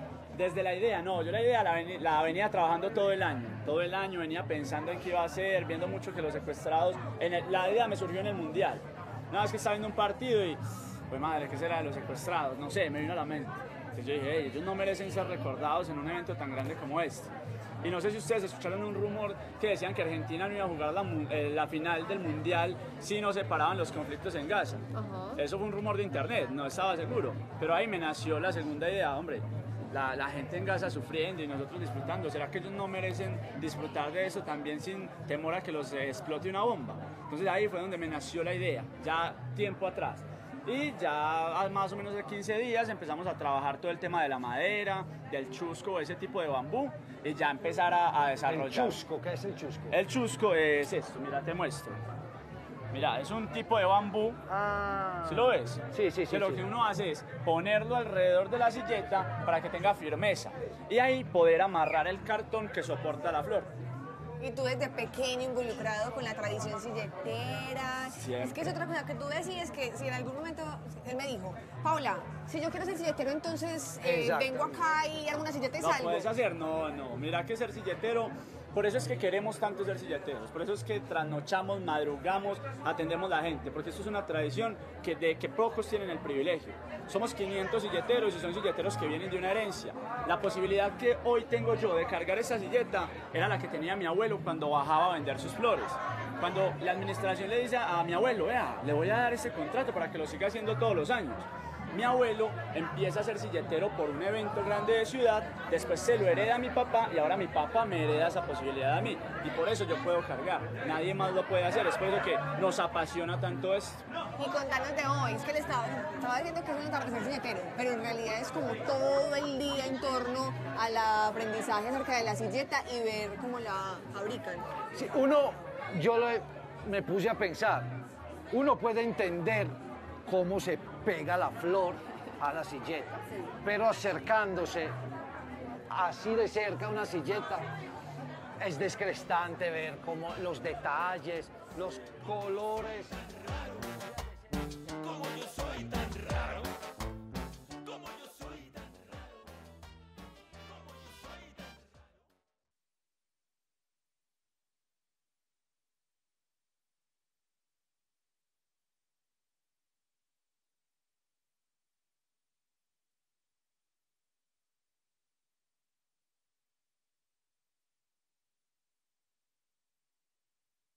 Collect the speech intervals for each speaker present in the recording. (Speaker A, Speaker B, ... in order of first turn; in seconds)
Speaker A: 0.3-24.8, 25.4-49.0, 49.9-52.0, 52.9-54.5, 55.2-63.7, 68.1-68.8, 75.8-114.0, 145.1-146.6, 147.9-148.7
Speaker B: 24.9-25.4, 64.4-76.3, 114.4-124.7
Speaker C: 48.5-50.0, 54.5-56.7, 74.0-74.8, 124.9-127.9, 128.5-135.0, 135.9-137.7, 138.6-143.2